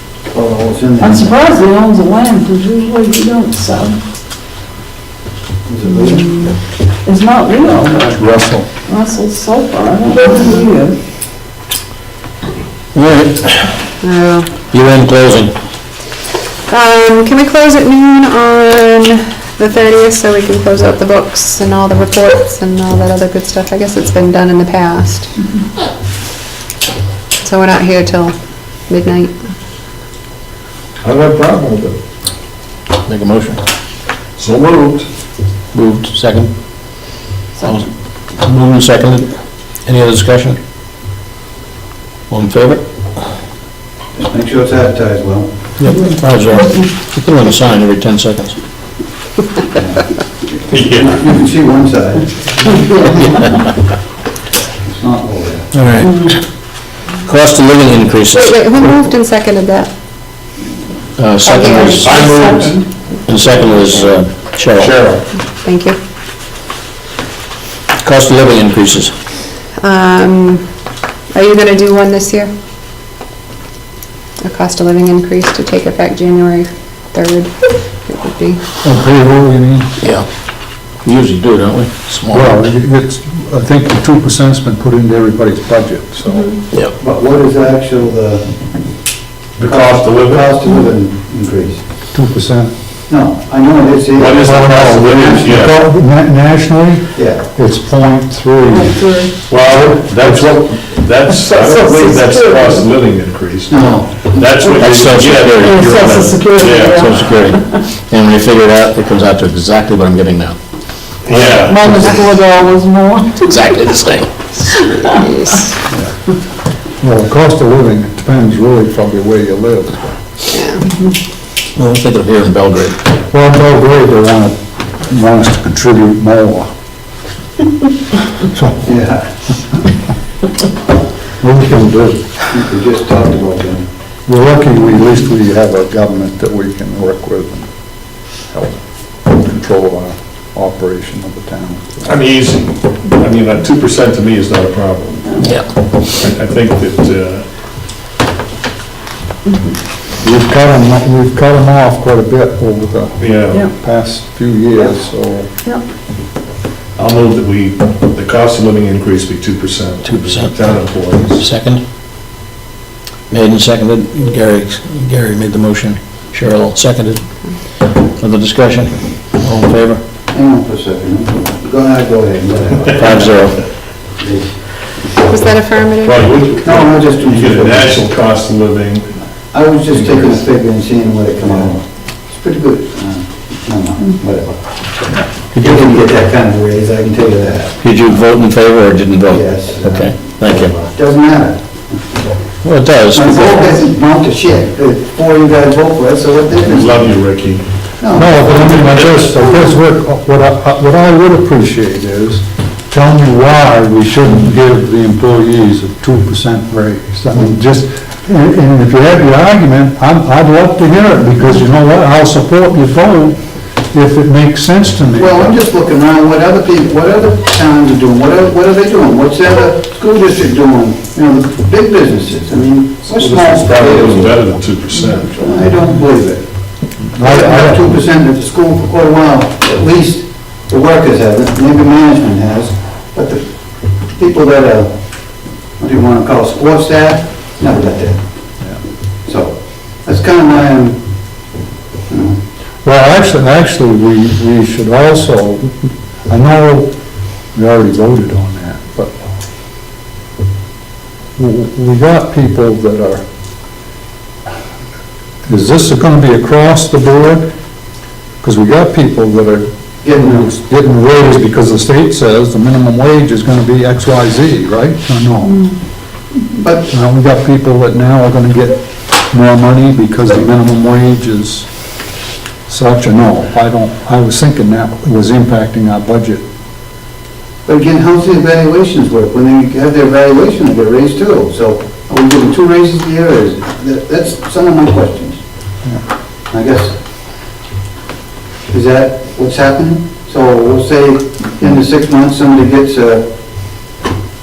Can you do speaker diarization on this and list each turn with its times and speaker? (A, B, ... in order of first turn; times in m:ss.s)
0:00.3-0:01.3 A
0:01.0-0:04.0 B
0:05.6-0:06.4 A
0:06.2-0:06.5 C
0:07.0-0:08.2 B
0:07.6-0:08.7 D
0:08.9-0:11.0 B
0:12.9-0:13.7 E
0:14.0-0:14.5 C
0:14.7-0:15.5 E
0:16.7-0:25.3 C
0:27.4-0:28.4 C
0:28.9-0:29.3 C
0:31.0-0:32.0 F
0:33.0-0:33.6 E
0:34.4-0:35.1 F
0:35.7-0:39.3 E
0:39.8-0:40.6 E
0:42.3-0:42.8 E
0:44.2-0:45.5 A
0:45.8-0:48.6 E
0:49.7-0:50.0 A
0:50.7-0:51.2 F
0:50.8-0:53.4 A
0:52.7-0:53.5 B
0:54.8-0:55.7 A
0:55.7-0:56.2 E
0:56.0-0:56.4 B
0:57.2-0:58.5 E
0:58.3-0:59.9 C
1:01.2-1:02.2 E
1:01.4-1:02.2 C
1:01.6-1:03.8 B
1:01.9-1:02.8 F
1:03.3-1:04.9 E
1:04.7-1:05.2 F
1:05.6-1:06.0 C
1:08.0-1:09.1 E
1:09.8-1:10.6 C
1:11.3-1:12.5 C
1:14.4-1:18.6 C
1:18.8-1:19.9 D
1:20.0-1:20.2 E
1:21.0-1:22.6 E
1:22.3-1:26.5 D
1:27.0-1:28.5 A
1:29.6-1:30.5 F
1:29.6-1:31.8 A
1:32.1-1:32.8 D
1:33.1-1:35.5 A
1:34.1-1:35.8 F
1:34.3-1:39.0 D
1:37.1-1:37.4 A
1:38.6-1:39.3 B
1:39.5-1:47.3 F
1:41.5-1:42.7 B
1:43.7-1:44.6 A
1:44.6-1:52.3 E
1:45.6-1:47.8 B
1:51.2-1:51.9 F
1:51.6-1:53.6 B
1:53.4-1:54.3 E
1:54.6-1:55.8 C
1:57.0-2:00.1 D
2:00.5-2:00.8 C
2:01.8-2:03.0 E
2:03.3-2:06.7 D
2:08.5-2:08.9 D
2:08.8-2:09.2 A
2:11.4-2:12.6 D
2:12.5-2:13.9 A
2:14.2-2:22.1 D
2:22.0-2:27.4 F
2:25.4-2:25.7 E
2:30.2-2:35.5 D
2:33.2-2:33.6 F
2:37.0-2:41.5 F
2:40.0-2:41.8 E
2:43.3-2:50.0 E
2:50.3-2:54.6 A
2:52.9-2:53.6 E
2:55.2-2:56.3 C
2:56.0-2:59.2 F
2:56.6-2:58.1 A
2:59.5-3:07.8 A
2:59.9-3:00.4 F
3:05.5-3:06.1 E
3:07.8-3:10.7 E
3:09.3-3:12.3 A
3:12.6-3:13.8 E
3:13.1-3:17.2 A
3:16.6-3:17.8 F
3:18.0-3:18.9 A
3:18.1-3:35.6 D
3:18.6-3:19.3 F
3:35.2-3:44.6 A
3:43.0-3:45.6 F
3:45.4-3:58.2 A
3:47.1-3:47.9 D
3:59.2-4:01.4 A
4:02.1-4:02.4 A
4:02.8-4:07.0 D
4:07.5-4:09.2 D
4:11.4-4:13.2 D
4:15.5-4:17.5 D
4:18.4-4:25.7 D
4:20.0-4:20.4 A
4:26.5-4:26.9 A
4:26.9-4:31.7 D
4:32.7-4:36.4 D
4:37.6-4:45.4 A
4:46.5-4:46.9 A
4:48.7-4:53.3 A